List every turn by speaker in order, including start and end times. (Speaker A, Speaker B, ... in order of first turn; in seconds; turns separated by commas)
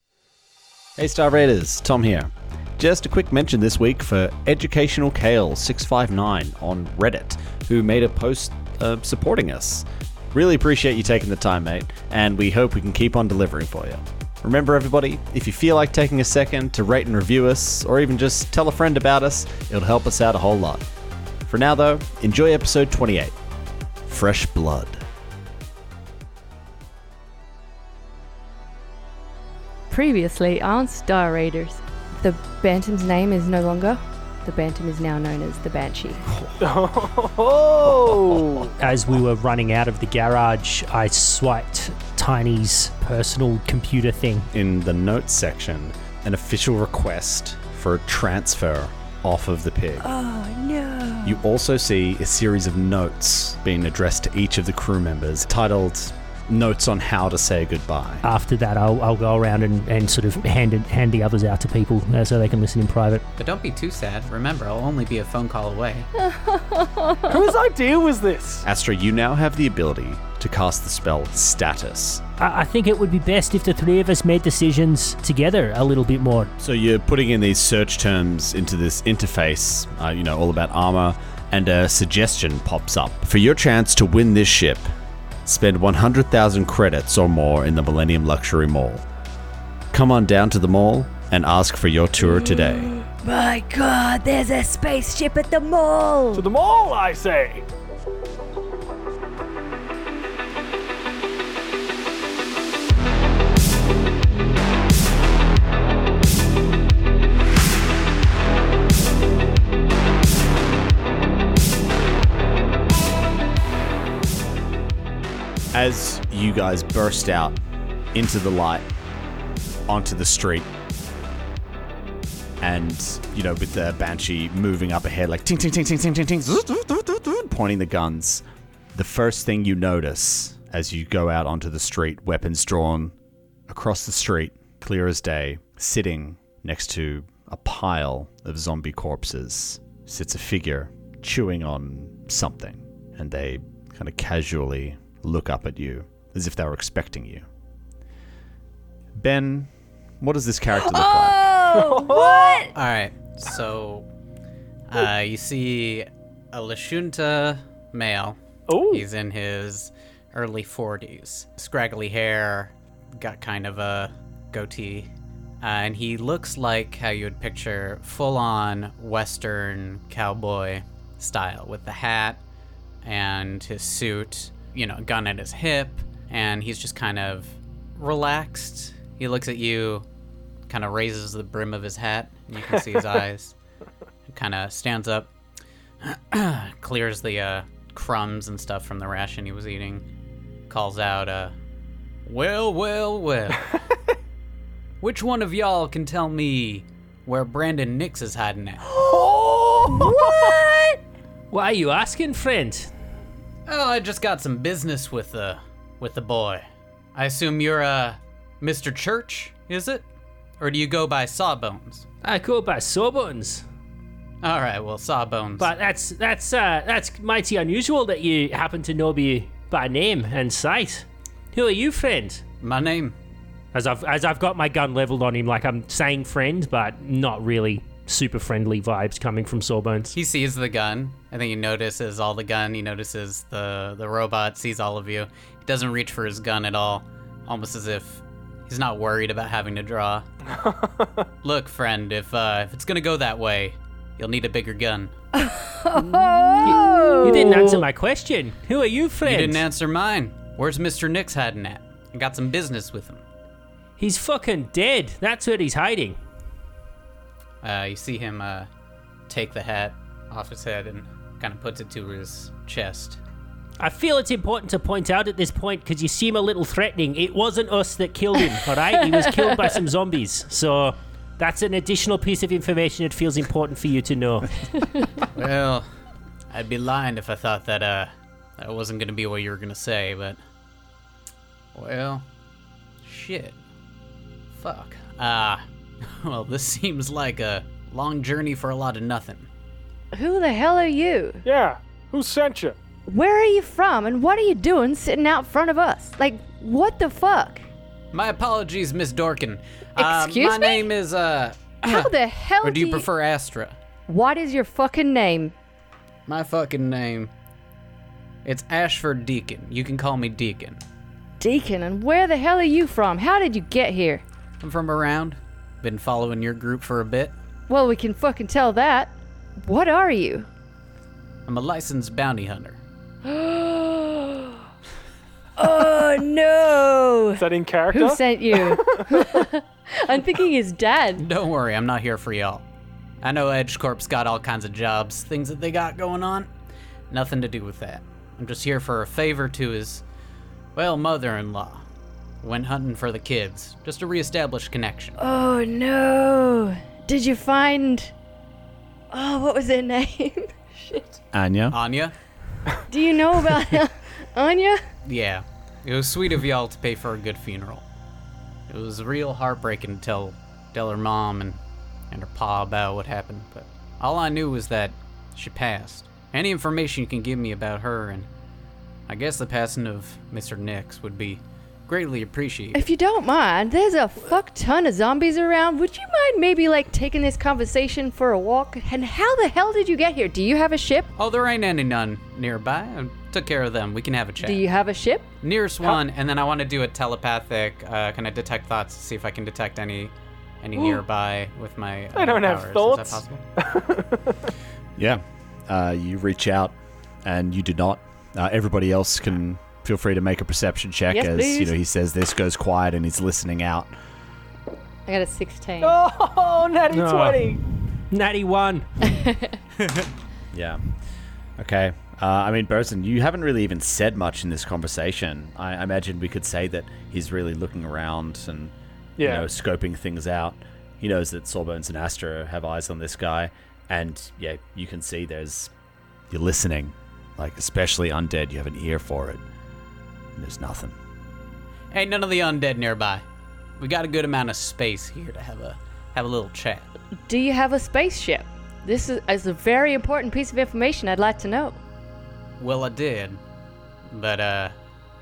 Speaker A: 1.0-20.9, Speaker A: 21.5-23.4, Speaker A: 24.1-25.0, Speaker B: 29.9-36.3, Speaker A: 36.3-36.6, Speaker C: 36.6-38.7, Speaker A: 38.1-38.4, Speaker D: 38.8-44.5, Speaker A: 44.5-50.1, Speaker B: 50.0-51.4, Speaker A: 51.2-58.2, Speaker D: 58.2-63.2, Speaker E: 63.4-66.1, Speaker B: 66.2-67.4, Speaker C: 67.3-68.7, Speaker A: 68.6-72.2, Speaker D: 72.4-76.5, Speaker A: 76.6-84.9, Speaker A: 85.5-89.0, Speaker A: 89.9-92.9, Speaker B: 92.2-96.5, Speaker C: 96.3-97.7, Speaker A: 115.7-117.6, Speaker A: 118.1-118.8, Speaker A: 119.9-120.7, Speaker A: 122.6-128.4, Speaker A: 128.9-133.2, Speaker A: 133.7-147.5, Speaker A: 149.2-149.7, Speaker A: 150.2-151.7, Speaker B: 150.8-152.7, Speaker C: 151.7-152.7, Speaker E: 152.8-154.1, Speaker E: 154.9-165.1, Speaker C: 158.7-159.1, Speaker E: 165.6-172.4, Speaker E: 173.0-180.1, Speaker E: 180.7-183.6, Speaker E: 184.3-185.3, Speaker E: 186.0-190.0, Speaker E: 190.7-191.5, Speaker E: 192.3-193.7, Speaker E: 195.0-198.8, Speaker B: 198.9-201.0, Speaker C: 199.0-200.5, Speaker D: 201.5-202.9, Speaker E: 203.7-206.6, Speaker E: 207.2-210.1, Speaker E: 210.6-212.1, Speaker D: 212.2-213.7, Speaker E: 214.4-215.7, Speaker D: 215.6-222.4, Speaker E: 222.6-223.2, Speaker D: 223.7-230.1, Speaker E: 230.1-240.2, Speaker C: 240.5-241.3, Speaker E: 241.4-245.1, Speaker B: 245.3-247.8, Speaker D: 246.6-249.6, Speaker E: 249.2-253.2, Speaker D: 254.0-256.2, Speaker E: 257.6-258.7, Speaker E: 259.3-263.2, Speaker D: 263.8-274.6, Speaker E: 275.3-275.9, Speaker E: 276.5-280.4, Speaker E: 281.8-282.2, Speaker E: 283.0-283.6, Speaker E: 284.6-289.5, Speaker B: 290.1-291.4, Speaker C: 291.4-292.8, Speaker B: 293.1-297.7, Speaker E: 298.1-302.1, Speaker B: 300.0-300.9, Speaker B: 301.8-303.1, Speaker E: 302.6-303.8, Speaker B: 304.1-305.6, Speaker E: 306.3-307.3, Speaker E: 308.4-310.8, Speaker B: 311.4-314.2, Speaker E: 314.6-317.3, Speaker B: 317.7-320.5, Speaker E: 321.5-322.8, Speaker B: 323.2-324.6, Speaker B: 325.6-331.2, Speaker C: 327.4-329.4, Speaker E: 331.2-332.6, Speaker E: 333.2-336.5, Speaker E: 337.1-340.0, Speaker E: 340.8-341.9, Speaker E: 342.4-345.2, Speaker B: 345.2-348.1, Speaker B: 349.1-351.2, Speaker A: 351.3-351.8, Speaker E: 351.7-352.1, Speaker B: 352.9-354.9, Speaker E: 355.1-357.8, Speaker E: 358.7-361.6, Speaker E: 362.1-368.3, Speaker E: 369.1-372.8, Speaker B: 372.7-381.1, Speaker E: 381.2-384.6, Speaker B: 384.4-385.3, Speaker E: 385.4-393.4, Speaker C: 392.1-394.5, Speaker A: 395.0-403.9, Speaker B: 401.1-401.7, Speaker B: 405.1-406.0, Speaker C: 405.8-407.6, Speaker D: 406.9-409.2, Speaker B: 409.1-409.6, Speaker A: 410.5-410.8, Speaker A: 411.6-425.7, Speaker C: 419.2-419.5, Speaker A: 426.3-429.4, Speaker A: 430.4-430.9, Speaker E: 431.9-433.2, Speaker E: 433.8-436.9, Speaker B: 437.3-441.8, Speaker E: 442.6-443.4, Speaker E: 444.1-444.8